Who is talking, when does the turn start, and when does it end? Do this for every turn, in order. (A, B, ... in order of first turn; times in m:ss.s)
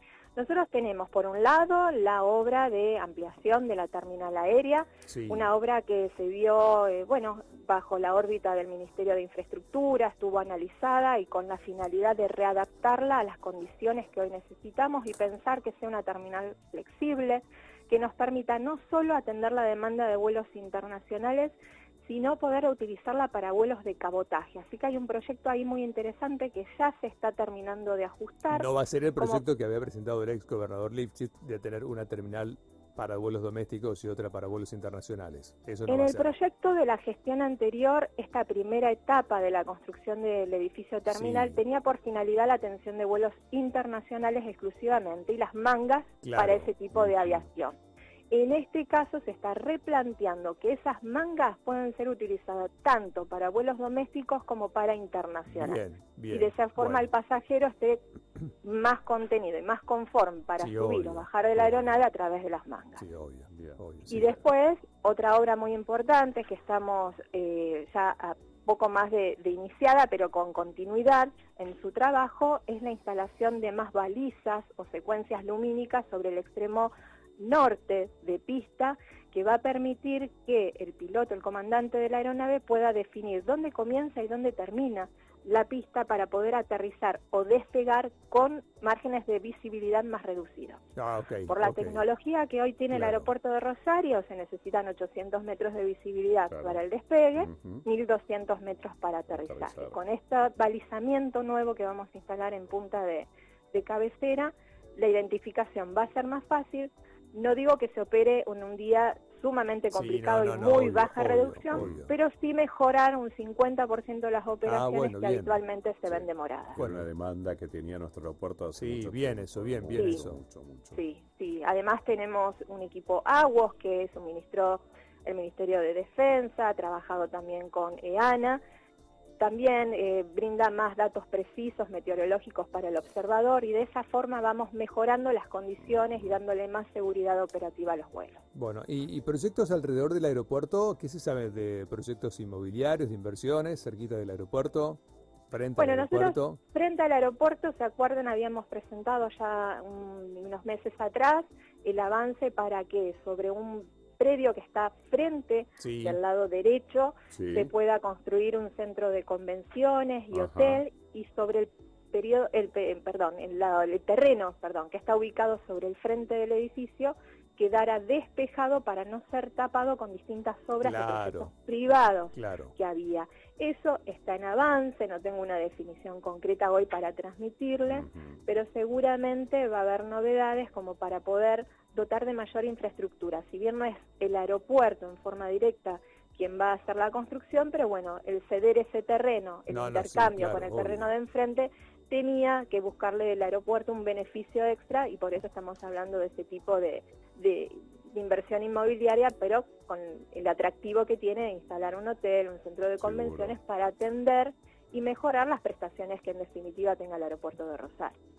0:00.4-0:29.4 A
0:05.1-0:05.5 B
0:28.5-0:36.3 B
0:35.9-0:47.7 A
0:41.1-0:41.5 B
0:46.2-0:46.7 B
0:48.3-0:58.0 A
0:55.5-0:57.1 B
0:58.6-1:03.0 A
1:00.6-1:01.3 B
1:03.0-1:04.4 B
1:03.5-1:03.8 C
1:04.1-1:30.8 A
1:31.0-1:32.0 B
1:31.5-1:56.7 A
1:32.9-1:33.2 B
1:36.5-1:36.8 C
1:37.4-1:37.8 C
1:39.3-1:40.0 C
1:49.9-1:52.1 B
1:51.7-1:52.0 C
1:54.6-1:55.6 B
1:56.7-2:01.0 C
1:56.8-1:57.0 B
1:58.8-2:00.4 B
1:59.9-2:00.2 A
2:00.9-2:08.6 A
2:09.4-2:18.4 A
2:18.5-2:26.6 B
2:25.8-3:28.1 A
2:35.8-2:36.2 B
2:37.3-2:37.7 C
2:40.3-2:40.8 C
2:50.8-2:51.5 B
2:52.3-2:52.7 B
3:09.7-3:11.1 B
3:23.0-3:23.6 C